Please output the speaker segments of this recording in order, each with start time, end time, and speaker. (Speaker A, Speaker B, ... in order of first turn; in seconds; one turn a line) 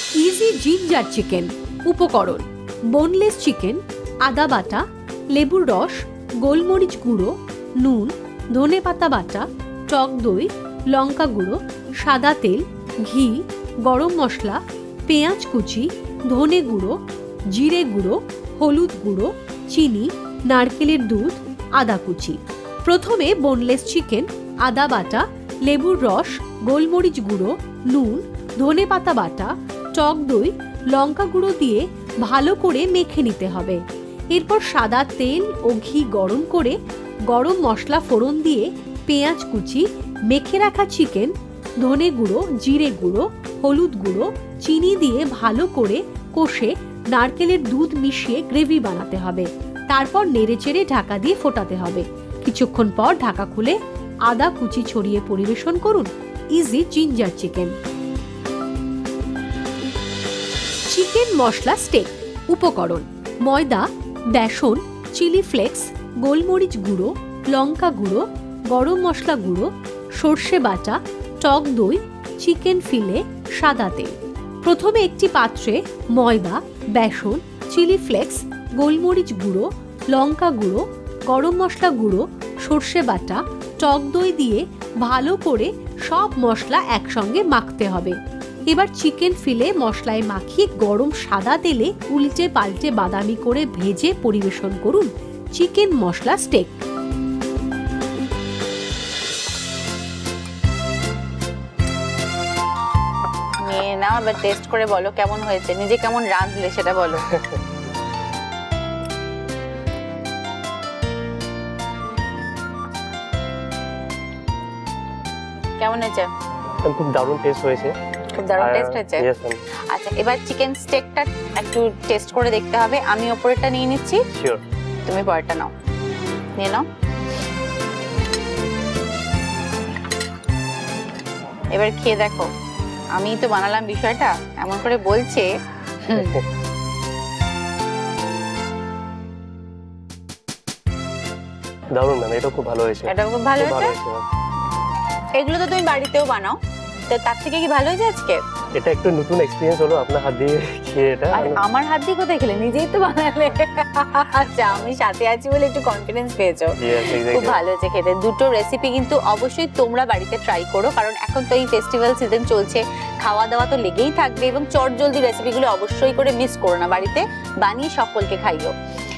Speaker A: 0.2-17.0
Speaker A: 17.5-33.8
Speaker A: 34.3-36.8
Speaker A: 37.3-57.8
Speaker A: 60.9-88.2
Speaker A: 88.7-96.8
Speaker B: 103.6-107.3
Speaker B: 115.8-116.3
Speaker C: 116.8-118.0
Speaker B: 118.3-119.2
Speaker C: 118.6-119.6
Speaker B: 119.9-124.2
Speaker C: 124.3-124.6
Speaker B: 125.1-125.7
Speaker B: 126.6-126.8
Speaker B: 131.7-132.5
Speaker B: 133.2-135.5
Speaker B: 136.1-136.4
Speaker C: 141.9-144.2
Speaker B: 143.1-144.0
Speaker B: 145.4-146.6
Speaker B: 147.1-148.4
Speaker C: 148.8-151.6
Speaker B: 151.3-168.7
Speaker C: 156.8-157.6